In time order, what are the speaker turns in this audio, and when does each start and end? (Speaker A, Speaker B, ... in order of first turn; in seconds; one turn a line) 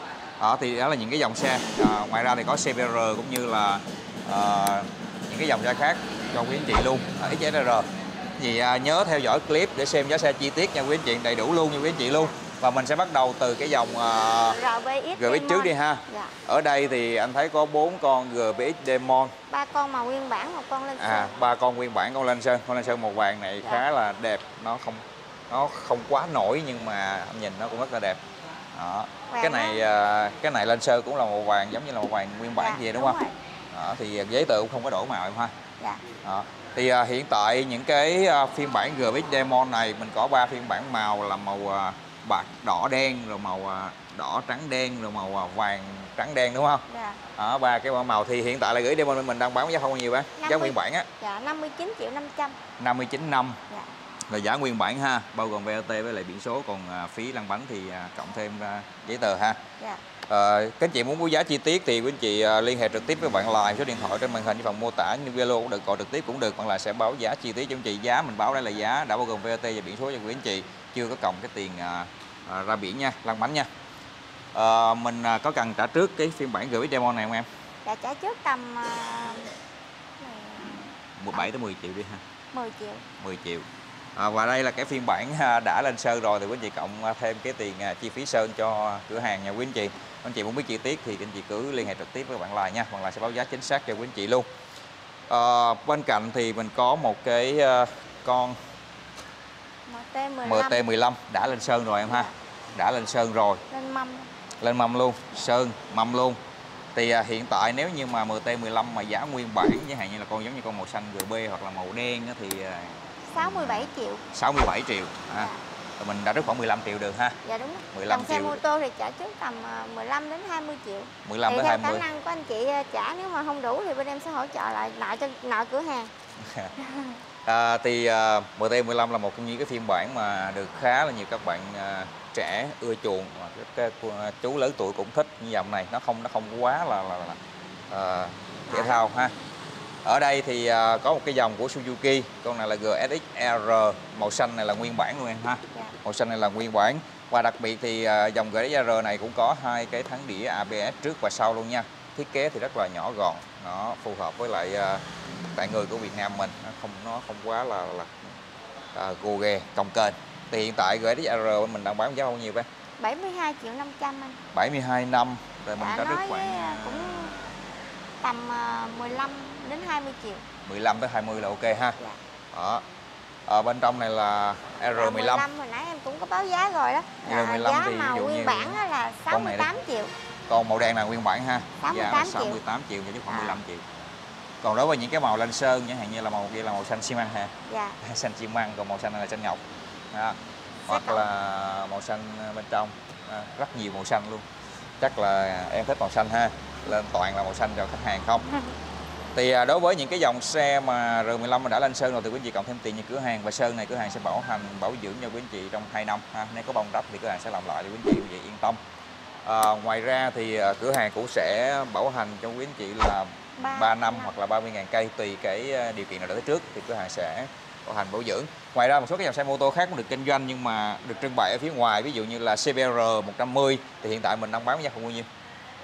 Speaker A: 0.4-7.9
Speaker A: 8.4-14.6
Speaker B: 14.5-16.3
Speaker A: 15.2-19.3
Speaker B: 19.5-21.3
Speaker A: 21.0-28.2
Speaker A: 28.7-35.5
Speaker B: 29.3-29.8
Speaker B: 32.6-33.4
Speaker A: 36.2-46.9
Speaker B: 46.9-47.2
Speaker A: 47.4-51.1
Speaker B: 50.4-52.6
Speaker A: 52.8-53.6
Speaker A: 54.3-59.6
Speaker A: 60.3-73.7
Speaker A: 74.5-77.5
Speaker B: 77.8-79.5
Speaker B: 80.2-81.5
Speaker A: 81.2-82.2
Speaker B: 82.5-83.0
Speaker A: 83.2-94.5
Speaker A: 95.3-98.6
Speaker B: 99.9-100.8
Speaker A: 100.4-103.6
Speaker B: 103.7-104.3
Speaker A: 104.6-106.4
Speaker A: 107.0-117.4
Speaker B: 113.3-114.2
Speaker B: 117.4-126.1
Speaker A: 117.9-118.6
Speaker A: 121.2-122.1
Speaker A: 126.4-126.7
Speaker B: 126.9-127.1
Speaker A: 127.5-137.4
Speaker A: 137.9-139.3
Speaker B: 138.7-139.1
Speaker A: 140.1-155.0
Speaker A: 155.6-158.2
Speaker A: 158.9-162.7
Speaker B: 163.0-164.4
Speaker A: 164.5-167.3
Speaker B: 165.8-167.4
Speaker B: 168.2-170.4
Speaker A: 170.7-172.0
Speaker A: 172.5-172.8
Speaker A: 173.5-175.5
Speaker B: 174.9-180.1
Speaker A: 177.3-179.7
Speaker A: 180.5-183.8
Speaker B: 181.8-182.6
Speaker B: 183.3-183.6
Speaker A: 184.6-189.6
Speaker B: 187.7-188.0
Speaker A: 190.1-194.4
Speaker B: 190.9-191.3
Speaker A: 195.0-198.5
Speaker A: 199.3-208.8
Speaker A: 209.4-225.3
Speaker B: 213.6-214.3